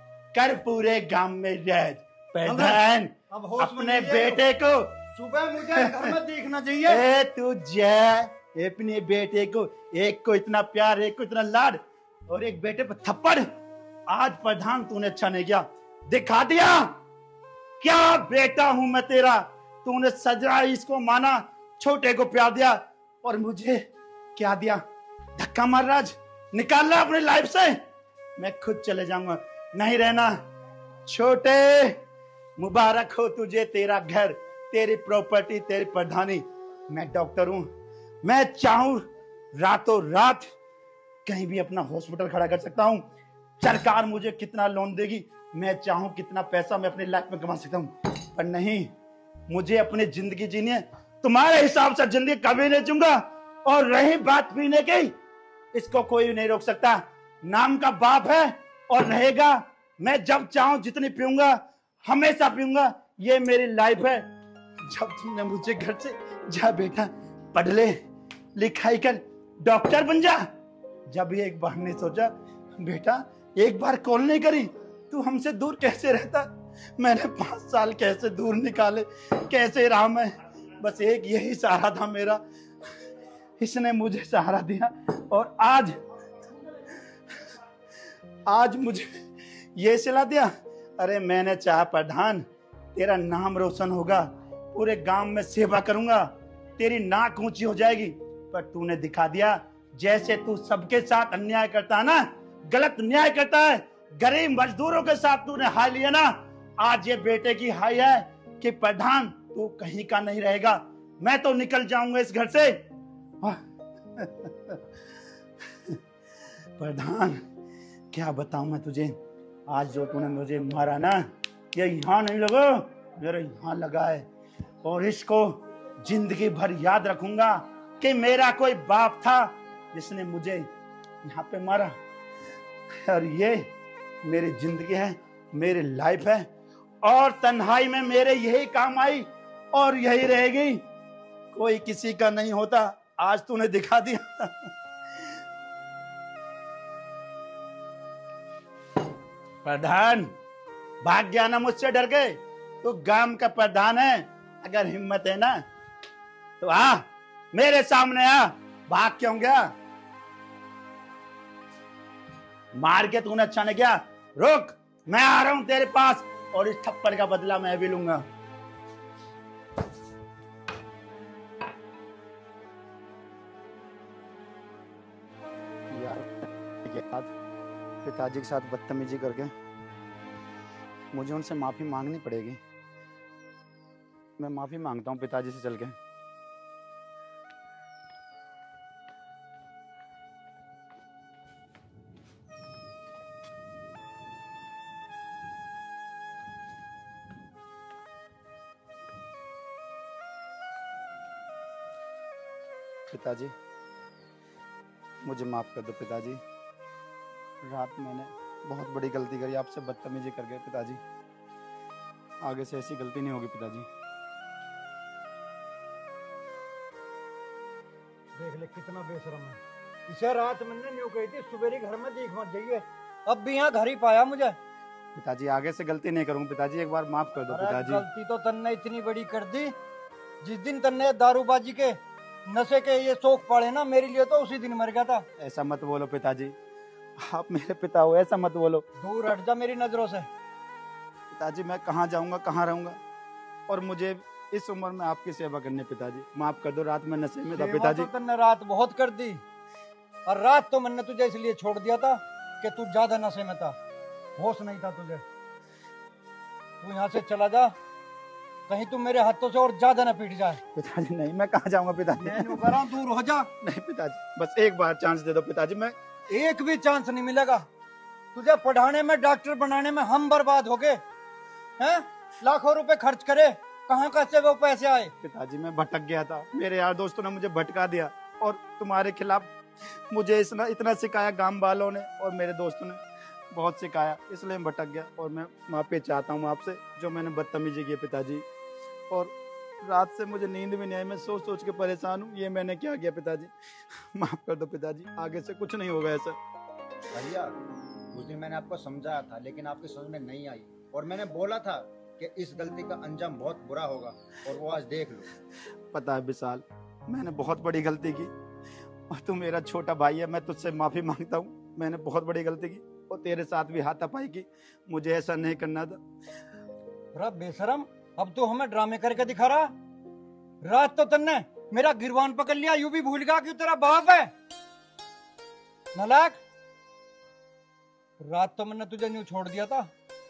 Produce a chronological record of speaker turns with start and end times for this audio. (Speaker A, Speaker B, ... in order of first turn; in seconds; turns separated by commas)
Speaker A: 0.3-5.0, Speaker B: 2.5-4.4, Speaker B: 5.1-7.0, Speaker A: 5.7-6.2, Speaker A: 6.8-13.5, Speaker A: 14.1-17.0, Speaker A: 17.8-23.8, Speaker A: 24.3-24.8, Speaker A: 25.4-27.8, Speaker A: 28.4-30.4, Speaker A: 31.1-32.0, Speaker A: 32.6-37.7, Speaker A: 38.2-40.5, Speaker A: 41.2-43.1, Speaker A: 43.6-48.9, Speaker A: 49.5-55.1, Speaker A: 55.7-68.0, Speaker A: 68.5-70.5, Speaker A: 71.1-82.4, Speaker A: 83.6-86.0, Speaker A: 88.5-89.2, Speaker A: 89.7-112.8, Speaker A: 113.4-114.8, Speaker A: 115.7-116.0, Speaker A: 116.8-117.4, Speaker A: 118.1-119.2, Speaker A: 119.7-121.2, Speaker A: 121.7-124.3, Speaker A: 124.8-130.7, Speaker A: 131.2-131.9, Speaker A: 132.9-133.7, Speaker A: 134.2-136.5, Speaker A: 137.0-140.8, Speaker A: 141.5-144.7, Speaker A: 149.6-150.3, Speaker A: 151.0-155.6, Speaker A: 156.6-159.7, Speaker A: 162.8-168.2, Speaker A: 175.9-177.3, Speaker A: 178.0-179.5, Speaker A: 181.1-182.6, Speaker A: 184.4-186.0, Speaker A: 203.1-203.5, Speaker A: 205.2-206.4, Speaker A: 207.6-211.0, Speaker A: 212.4-213.9, Speaker B: 218.4-224.6, Speaker A: 225.1-228.0, Speaker B: 227.5-229.7, Speaker B: 230.4-235.2, Speaker A: 235.4-236.6, Speaker A: 237.2-238.8, Speaker B: 239.0-240.3, Speaker A: 241.3-243.0, Speaker A: 243.7-248.1, Speaker B: 247.5-249.4, Speaker B: 250.2-253.8, Speaker B: 254.4-255.2, Speaker B: 256.8-257.7, Speaker B: 258.7-260.6, Speaker A: 260.7-262.7, Speaker B: 262.2-263.5, Speaker A: 263.6-265.9, Speaker B: 266.3-267.6, Speaker B: 268.3-271.0, Speaker B: 271.8-275.1, Speaker A: 275.2-288.4, Speaker A: 289.1-296.4, Speaker C: 297.1-297.5, Speaker C: 298.1-305.3, Speaker A: 305.9-308.3, Speaker A: 309.1-316.0, Speaker B: 317.1-319.7, Speaker B: 320.6-324.3, Speaker B: 325.9-326.4, Speaker B: 328.2-329.9